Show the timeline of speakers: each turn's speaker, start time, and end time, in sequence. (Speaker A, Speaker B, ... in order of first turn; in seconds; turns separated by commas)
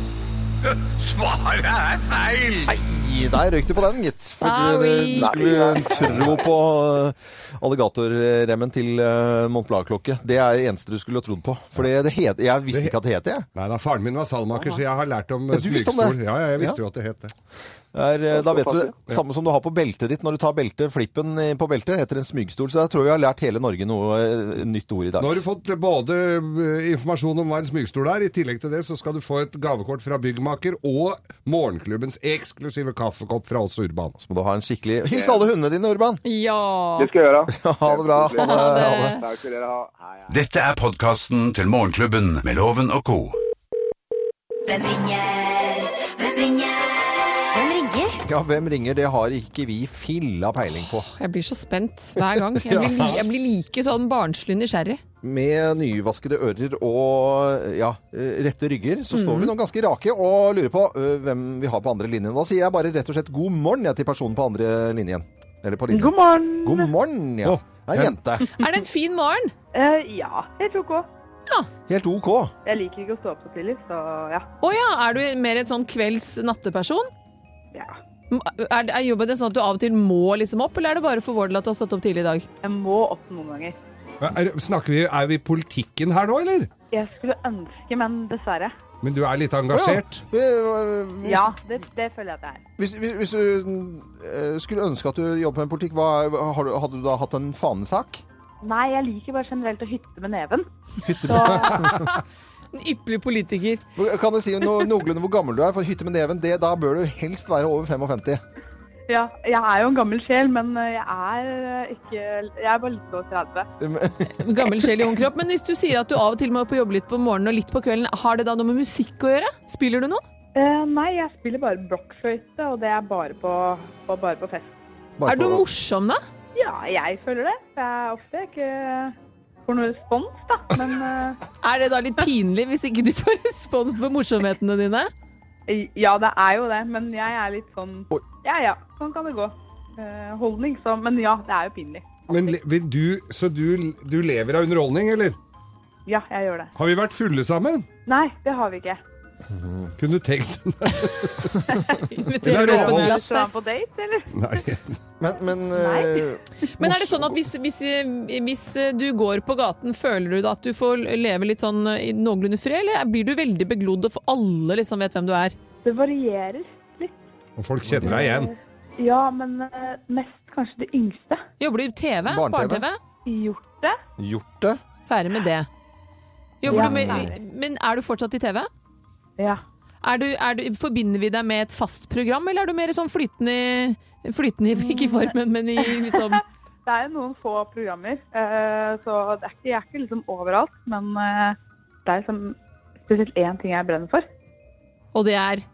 Speaker A: 0.8-2.7, Speaker B: 2.6-13.5, Speaker C: 4.4-5.4, Speaker D: 5.2-6.4, Speaker A: 12.7-13.0, Speaker A: 13.6-17.3, Speaker B: 15.5-16.8, Speaker B: 17.9-25.4, Speaker D: 18.4-18.9, Speaker A: 25.2-34.2, Speaker B: 34.2-36.2, Speaker D: 35.1-35.5, Speaker C: 36.2-37.1, Speaker D: 37.0-40.4, Speaker B: 37.5-39.2, Speaker C: 38.4-39.2, Speaker E: 40.3-43.4, Speaker F: 44.7-48.2, Speaker B: 48.2-51.1, Speaker C: 51.1-55.0, Speaker A: 52.5-53.2, Speaker B: 55.2-68.5, Speaker C: 59.1-59.5, Speaker G: 65.9-66.9, Speaker A: 67.5-68.1, Speaker C: 68.5-69.5, Speaker G: 69.7-71.1, Speaker B: 71.9-72.5, Speaker G: 72.7-74.5, Speaker C: 74.6-77.1, Speaker C: 78.3-82.5, Speaker G: 82.6-83.8, Speaker A: 84.2-86.7, Speaker G: 86.9-88.7, Speaker A: 89.0-90.2, Speaker B: 89.7-91.5, Speaker G: 91.2-92.6, Speaker B: 92.8-98.2, Speaker G: 98.6-100.7, Speaker B: 101.0-102.1, Speaker G: 101.3-102.0, Speaker C: 101.3-101.7, Speaker C: 102.7-103.8, Speaker B: 104.0-108.4, Speaker G: 109.1-113.7, Speaker B: 113.8-114.9, Speaker C: 114.4-120.2, Speaker G: 120.5-124.7, Speaker B: 125.2-125.7, Speaker C: 125.3-126.2, Speaker G: 126.5-131.4, Speaker C: 131.6-135.1, Speaker G: 135.7-142.2, Speaker A: 142.3-145.4, Speaker G: 146.1-146.7, Speaker A: 146.8-147.9, Speaker G: 148.1-149.0, Speaker B: 149.5-149.9, Speaker A: 150.0-151.6, Speaker G: 151.7-154.3, Speaker C: 152.1-153.5, Speaker A: 152.4-153.3, Speaker A: 154.3-155.0, Speaker B: 155.2-157.4, Speaker G: 155.8-156.3, Speaker C: 156.8-165.6, Speaker G: 165.8-167.2, Speaker A: 167.6-168.5, Speaker G: 168.0-171.4, Speaker C: 171.6-173.0, Speaker B: 172.3-172.8, Speaker G: 173.3-174.0, Speaker B: 174.2-174.8, Speaker C: 175.1-175.7, Speaker C: 176.6-178.7, Speaker B: 176.6-177.3, Speaker G: 176.7-177.3, Speaker C: 180.0-186.4, Speaker G: 184.7-186.3, Speaker G: 186.9-194.3, Speaker C: 195.1-195.7